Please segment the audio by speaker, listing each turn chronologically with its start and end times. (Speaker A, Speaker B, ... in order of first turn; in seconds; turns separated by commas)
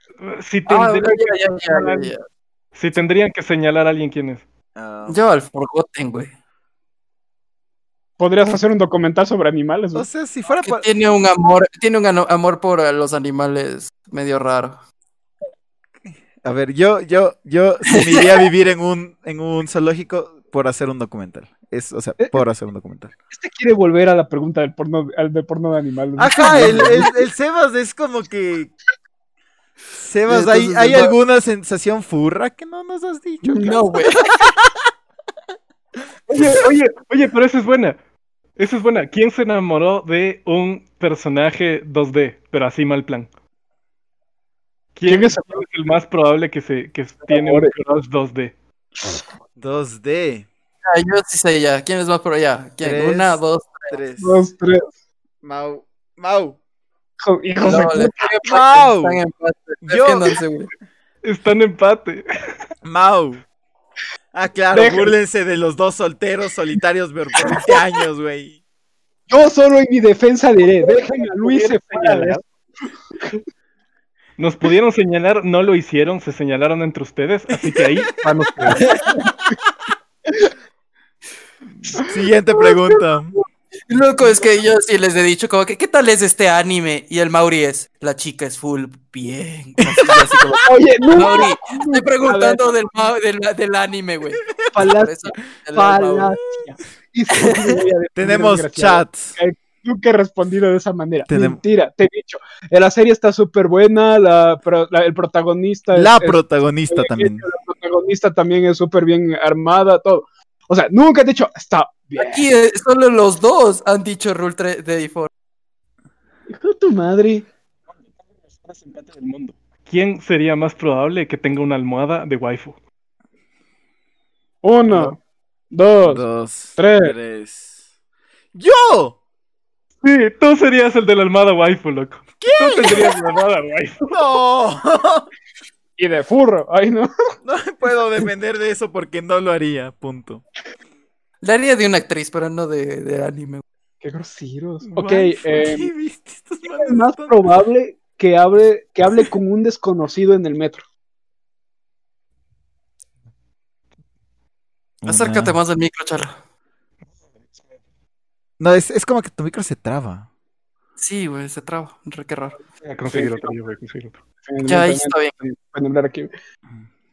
Speaker A: 0.2-1.3, Speaker B: 0.7-2.2, Speaker C: 1.7-2.0, Speaker A: 2.8-4.5, Speaker D: 4.8-5.2, Speaker B: 5.1-6.3, Speaker C: 8.2-10.1, Speaker D: 9.9-10.9, Speaker B: 10.5-14.8, Speaker D: 16.1-23.1, Speaker B: 17.9-18.2, Speaker C: 23.3-27.2, Speaker D: 26.2-28.7, Speaker D: 29.9-34.5, Speaker B: 30.3-31.1, Speaker C: 33.5-33.8, Speaker B: 33.6-34.3, Speaker A: 36.3-38.0, Speaker A: 38.6-43.3, Speaker A: 45.0-48.5, Speaker C: 45.1-45.6, Speaker C: 47.3-47.7, Speaker D: 49.6-50.5, Speaker B: 50.9-54.0, Speaker D: 52.8-54.4, Speaker C: 54.2-54.9, Speaker D: 55.4-56.6, Speaker C: 57.2-58.3, Speaker B: 57.6-60.7, Speaker D: 58.5-59.2, Speaker D: 59.8-60.3, Speaker A: 61.2-62.2, Speaker D: 62.8-63.4, Speaker D: 64.3-68.6, Speaker C: 64.7-65.1, Speaker C: 69.3-72.4, Speaker A: 70.8-72.4, Speaker A: 74.4-78.9, Speaker B: 78.8-79.2, Speaker D: 81.8-83.3, Speaker C: 82.0-83.0, Speaker B: 83.9-96.4, Speaker C: 90.6-92.8, Speaker C: 94.7-112.5, Speaker D: 98.2-99.4, Speaker D: 101.3-101.6, Speaker D: 105.9-107.5, Speaker B: 112.2-115.3, Speaker C: 116.5-117.5, Speaker A: 118.5-122.8, Speaker C: 124.6-125.2, Speaker C: 125.7-126.2, Speaker D: 126.0-127.7, Speaker C: 126.8-127.2, Speaker D: 128.5-129.2, Speaker A: 130.0-134.1, Speaker D: 132.4-133.2, Speaker D: 134.1-135.3, Speaker C: 136.0-137.1, Speaker D: 137.4-140.4, Speaker B: 141.4-143.6, Speaker C: 144.0-145.9, Speaker D: 144.9-147.6, Speaker C: 146.6-150.8, Speaker D: 155.0-155.6, Speaker B: 155.1-156.4, Speaker D: 158.6-160.3, Speaker B: 161.0-162.6, Speaker A: 162.8-164.2, Speaker C: 163.1-163.6, Speaker C: 164.4-166.3, Speaker B: 164.7-165.3